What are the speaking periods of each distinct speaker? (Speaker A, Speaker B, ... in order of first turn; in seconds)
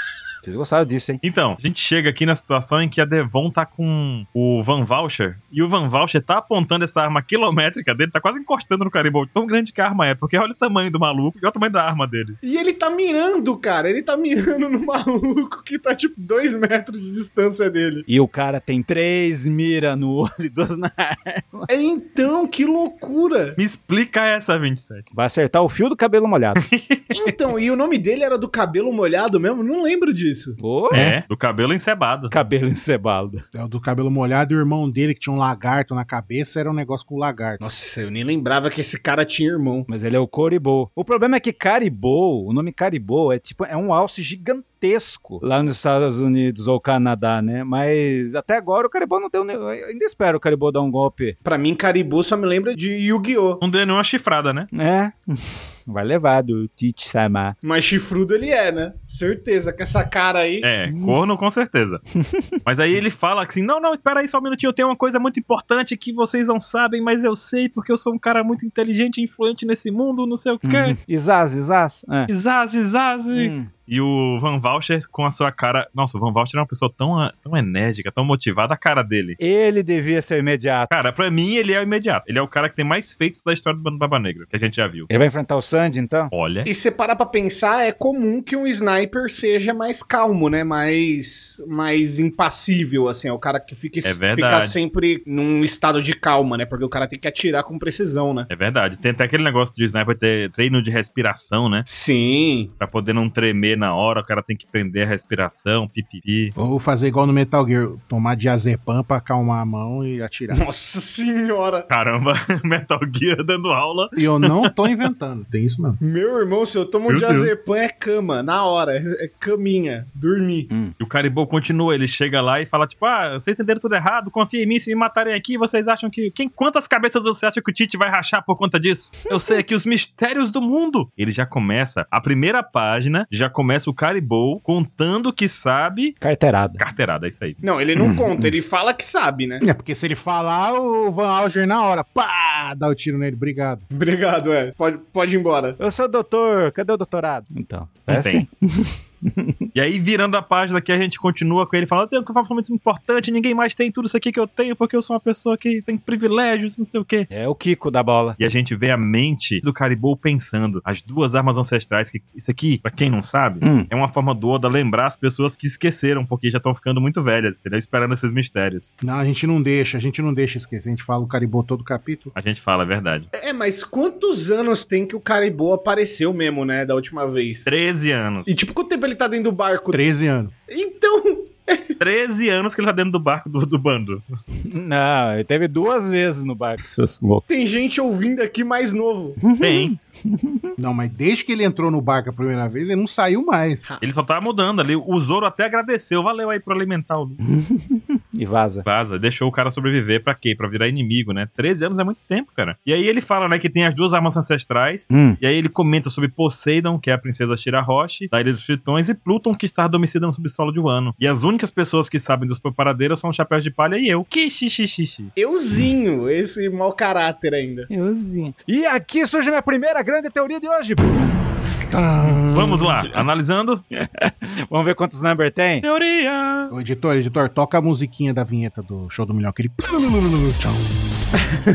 Speaker A: 0.4-1.2, 18.1-21.7, 25.1-26.6, 30.6-31.1, 32.3-33.4, 39.9-51.4, 54.7-57.5, 62.2-62.6, 70.6-72.3, 73.3-73.7, 79.4-80.9, 85.1-86.3, 136.2-136.8, 138.0-138.5, 145.8-149.6, 157.3-158.4, 163.6-163.9, 184.6-187.4, 189.4-190.7, 197.4-198.8, 205.1-205.4, 217.9-221.4, 223.9-225.8
Speaker B: 1.2-12.4, 23.6-25.1, 26.6-27.3, 30.9-32.3, 53.6-54.7, 60.6-62.0, 62.6-71.0, 72.3-79.4, 80.9-85.1, 86.3-86.7, 94.0-94.8, 98.5-101.8, 102.8-106.5, 111.9-115.1, 117.1-117.6, 121.0-136.2, 136.8-137.6, 148.1-148.4, 149.7-157.3, 158.4-168.9, 172.3-173.3, 177.7-178.5, 182.0-184.2, 189.6-189.9, 194.0-197.4, 198.8-215.3, 222.5-223.8, 225.8-226.7
Speaker C: 12.4-18.1, 21.7-23.6, 27.1-30.6, 37.6-39.9, 51.4-53.6, 57.6-60.7, 86.7-98.5, 101.9-102.7, 110.5-111.9, 116.0-120.7, 137.6-139.6, 143.9-145.8, 173.3-177.7, 178.5-180.0, 180.7-181.9, 187.5-189.4, 215.3-217.9
Speaker D: 30.9-31.2, 33.5-37.6, 106.5-110.6, 114.2-116.0, 139.6-143.8, 169.0-172.3, 179.9-180.5, 190.8-193.8, 221.9-223.1, 226.7-231.3